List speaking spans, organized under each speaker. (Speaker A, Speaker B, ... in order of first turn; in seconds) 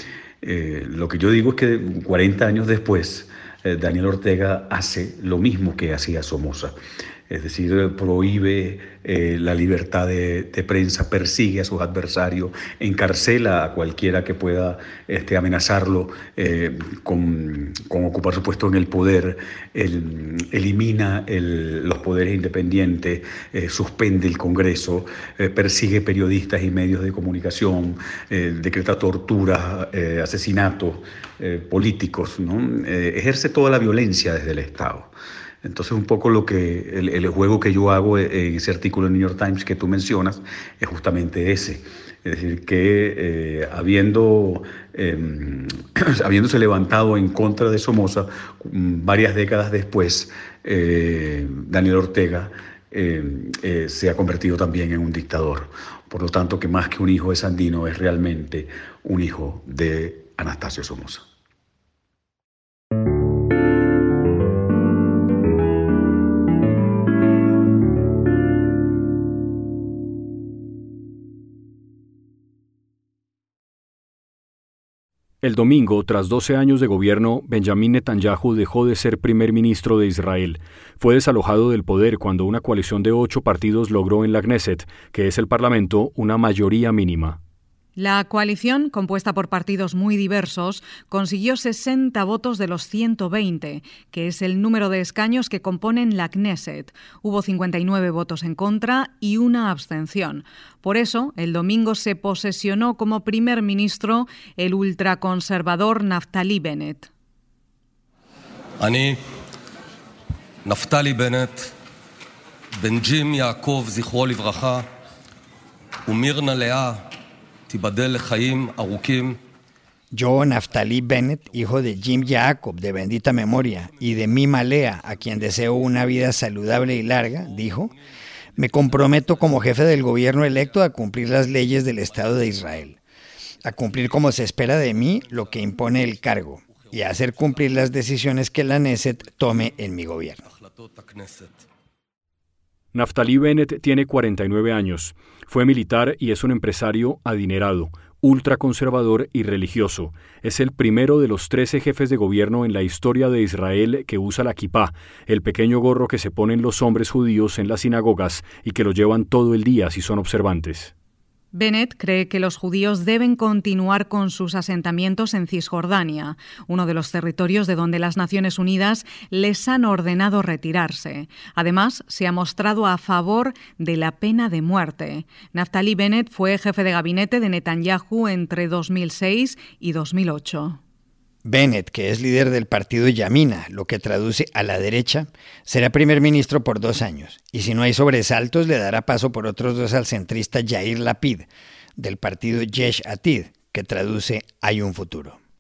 Speaker A: 0.4-6.8, 7.3-35.1, 35.6-61.3
Speaker B: 75.4-87.4, 142.9-160.9
Speaker C: 88.0-107.1, 161.5-180.8
Speaker D: 108.8-109.2, 110.7-111.7, 112.8-114.9, 116.0-117.1, 117.7-119.4, 140.6-141.6
Speaker E: 120.1-128.0, 128.6-133.0, 133.6-140.4, 181.4-195.4